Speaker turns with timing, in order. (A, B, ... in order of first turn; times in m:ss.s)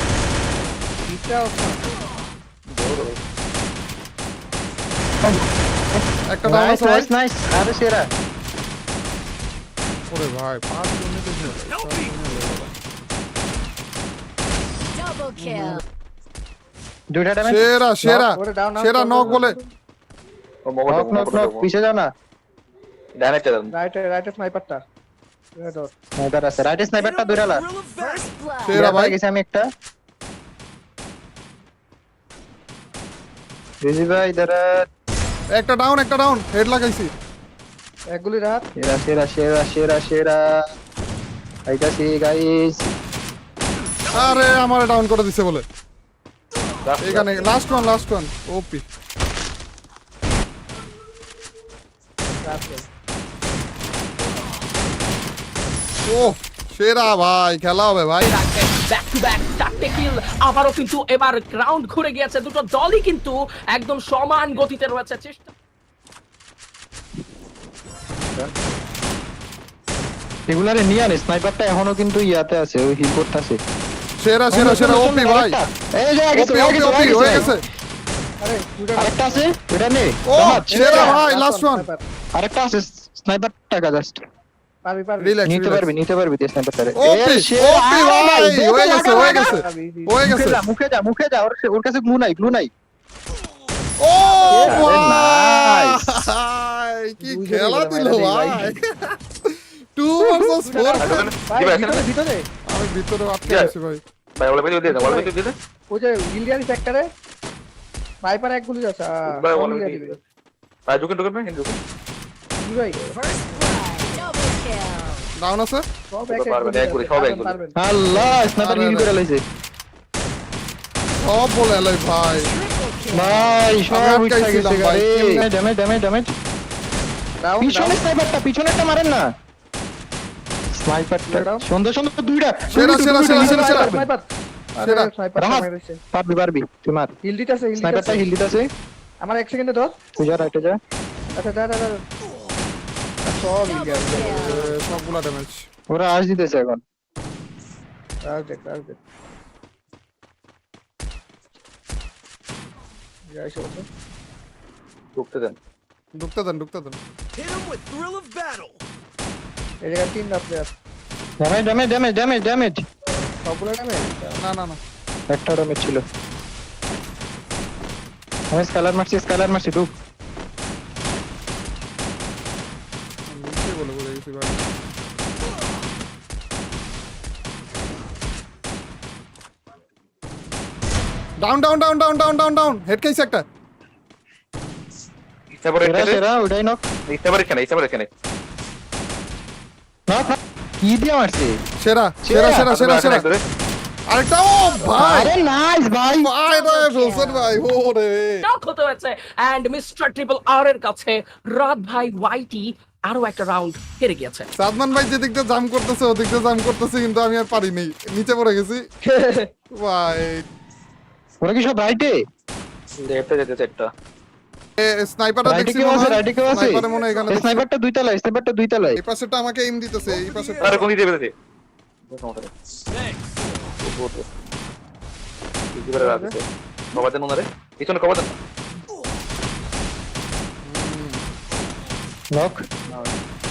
0:01.0-0:01.8 A
0:02.7-0:03.2 B
0:06.0-0:08.0 C
0:06.3-0:07.1 D
0:10.1-0:12.7 D
0:15.0-0:15.8 E
0:17.1-0:18.2 C
0:17.4-0:19.6 D
0:18.3-0:19.6 A
0:20.6-0:21.7 B
0:20.9-0:22.1 C
0:23.2-0:23.7 B
0:23.7-0:24.8 A
0:25.6-0:25.9 A
0:26.2-0:27.6 C
0:28.0-0:28.8 E
0:28.6-0:29.1 D
0:28.7-0:29.6 C
0:33.8-0:34.7 C
0:35.5-0:37.1 D
0:38.1-0:38.6 A
0:38.8-0:40.6 C
0:41.7-0:42.8 C
0:44.1-0:45.6 D
0:46.8-0:47.4 B
0:47.0-0:48.8 D
0:52.4-0:52.8 A
0:56.1-0:58.3 D
0:58.2-1:05.5 F
1:10.5-1:13.6 C
1:14.2-1:15.6 D
1:14.5-1:17.5 C
1:16.3-1:17.6 D
1:18.4-1:19.4 A
1:18.9-1:21.2 C
1:20.3-1:21.9 D
1:20.7-1:22.0 A
1:22.3-1:24.2 C
1:24.8-1:25.4 A
1:25.2-1:25.9 D
1:25.4-1:29.3 C
1:27.0-1:30.6 D
1:28.9-1:29.5 F
1:29.0-1:30.2 A
1:30.2-1:32.7 C
1:34.0-1:41.2 D
1:34.5-1:35.1 A
1:34.6-1:36.2 C
1:37.2-1:38.7 A
1:40.2-1:42.4 A
1:41.0-1:42.1 B
1:42.7-1:44.0 D
1:43.5-1:43.7 B
1:44.4-1:45.5 B
1:44.8-1:45.3 A
1:45.9-1:47.1 A
1:48.2-1:50.2 A
1:49.3-1:50.2 B
1:50.9-1:51.8 B
1:52.6-1:53.0 A
1:53.1-1:55.3 E
1:55.4-1:55.8 D
1:56.1-1:58.4 A
1:56.3-1:57.6 B
1:57.8-1:59.4 C
1:58.5-1:59.1 D
2:01.2-2:02.5 D
2:02.4-2:03.7 E
2:03.1-2:06.3 C
2:03.9-2:05.5 D
2:07.4-2:08.0 A
2:07.6-2:09.2 C
2:10.8-2:14.1 C
2:11.3-2:11.6 A
2:12.7-2:13.9 D
2:13.2-2:16.0 A
2:14.8-2:15.1 D
2:15.4-2:17.1 C
2:17.2-2:18.3 A
2:17.8-2:18.7 C
2:19.2-2:20.0 A
2:20.2-2:20.8 C
2:21.3-2:22.0 A
2:23.2-2:24.7 A
2:23.6-2:24.7 E
2:24.3-2:25.6 D
2:25.9-2:26.8 C
2:28.2-2:29.0 A
2:33.3-2:33.8 A
2:35.2-2:35.5 B
2:36.1-2:37.0 D
2:39.8-2:40.7 A
2:41.4-2:42.8 C
2:43.4-2:44.4 A
2:44.4-2:44.8 D
2:45.3-2:46.0 C
2:48.5-2:49.9 C
2:53.3-2:54.6 D
3:01.4-3:03.4 D
3:05.5-3:06.2 B
3:05.8-3:06.9 C
3:07.1-3:08.1 B
3:10.1-3:11.5 C
3:11.8-3:13.3 D
3:12.2-3:12.7 C
3:12.7-3:13.4 B
3:14.1-3:15.4 D
3:15.0-3:16.3 C
3:16.2-3:18.4 D
3:16.5-3:17.4 E
3:16.7-3:17.1 F
3:18.4-3:24.5 F
3:24.6-3:28.8 D
3:29.0-3:29.5 A
3:29.8-3:30.4 D
3:31.4-3:32.2 C
3:33.0-3:33.9 B
3:34.8-3:37.6 D
3:35.4-3:39.0 C
3:39.0-3:40.9 D
3:40.6-3:41.3 B
3:42.1-3:42.5 B
3:43.8-3:44.2 B
3:45.7-3:46.4 B
3:45.9-3:46.4 A
3:46.9-3:48.4 B
3:50.6-3:51.2 D
3:52.3-3:52.6 C